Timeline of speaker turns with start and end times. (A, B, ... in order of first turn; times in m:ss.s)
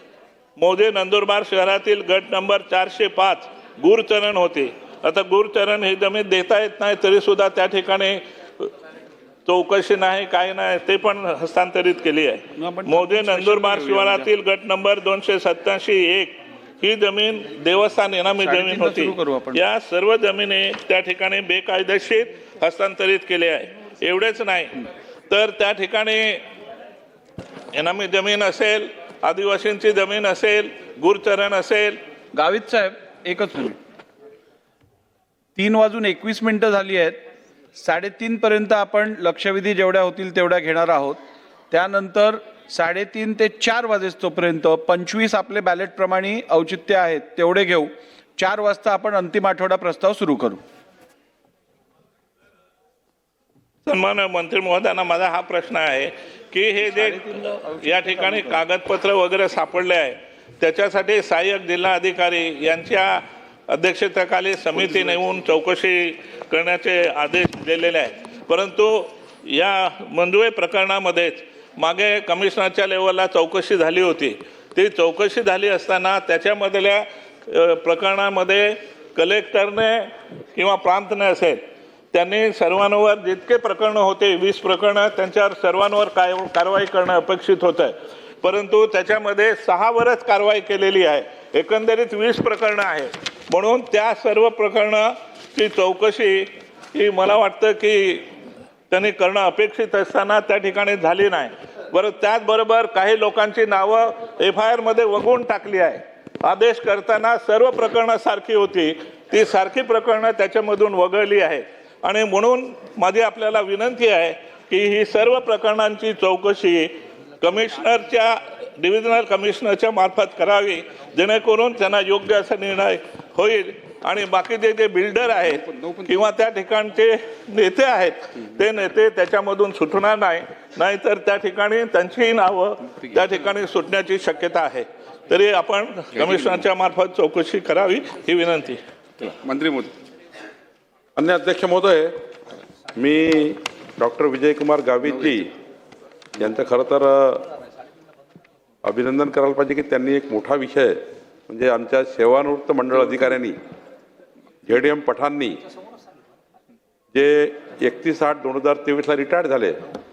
0:00.6-0:08.7 A
0:09.4-0:26.4 A
0:12.6-0:14.3 B
0:18.4-0:19.6 B
0:27.7-0:32.0 A
0:32.3-0:33.8 B
0:35.6-0:41.2 B
0:41.7-0:50.6 B
0:53.8-1:21.6 A
0:56.8-0:58.6 B
1:04.7-1:05.4 B
1:22.1-1:38.3 A
1:38.9-2:18.8 A
2:19.2-2:19.9 C
2:21.2-2:22.1 C
2:22.9-2:25.5 C
2:26.4-2:27.4 C
2:28.8-2:33.6 C
2:34.6-2:35.6 C
2:37.1-2:39.8 C